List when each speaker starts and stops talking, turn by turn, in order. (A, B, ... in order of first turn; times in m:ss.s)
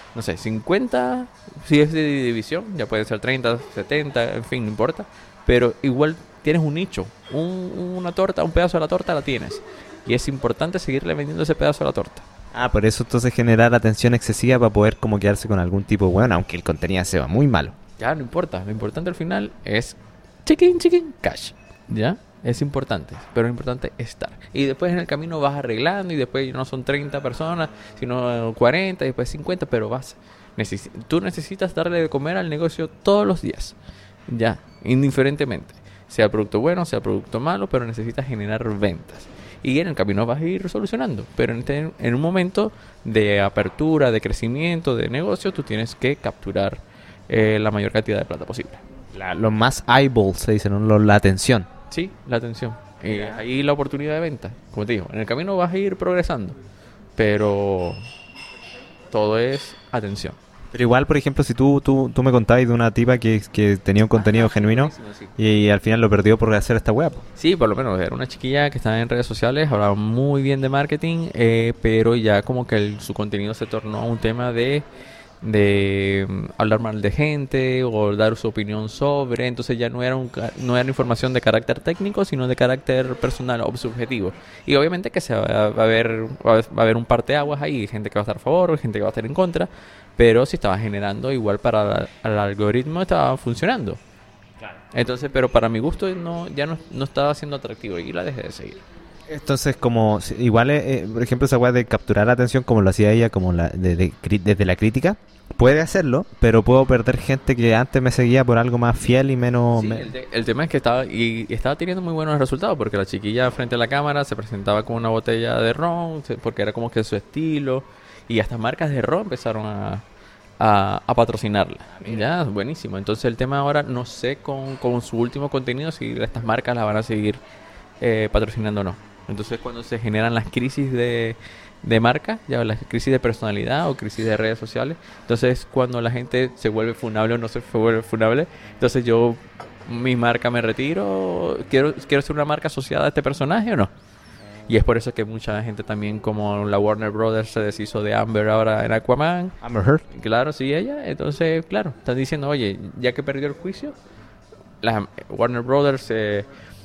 0:00.1-0:12.2 A
0:12.5-0:17.8 B
0:18.0-0:33.8 A
0:34.3-0:48.8 A
0:49.1-0:51.7 B
0:51.9-0:56.6 A
0:53.1-0:53.4 B
0:57.2-0:58.0 A
0:59.1-1:00.4 A
1:00.7-1:07.3 B
1:04.1-1:05.3 A
1:07.4-1:14.9 A
1:15.4-1:34.0 A
1:34.9-1:38.8 A
1:39.3-1:50.1 B
1:49.7-2:00.0 A
2:00.6-2:07.4 A
2:08.0-2:23.9 A
2:24.7-2:29.6 A
2:29.6-2:30.0 B
2:30.1-2:34.0 A
2:34.8-2:36.5 A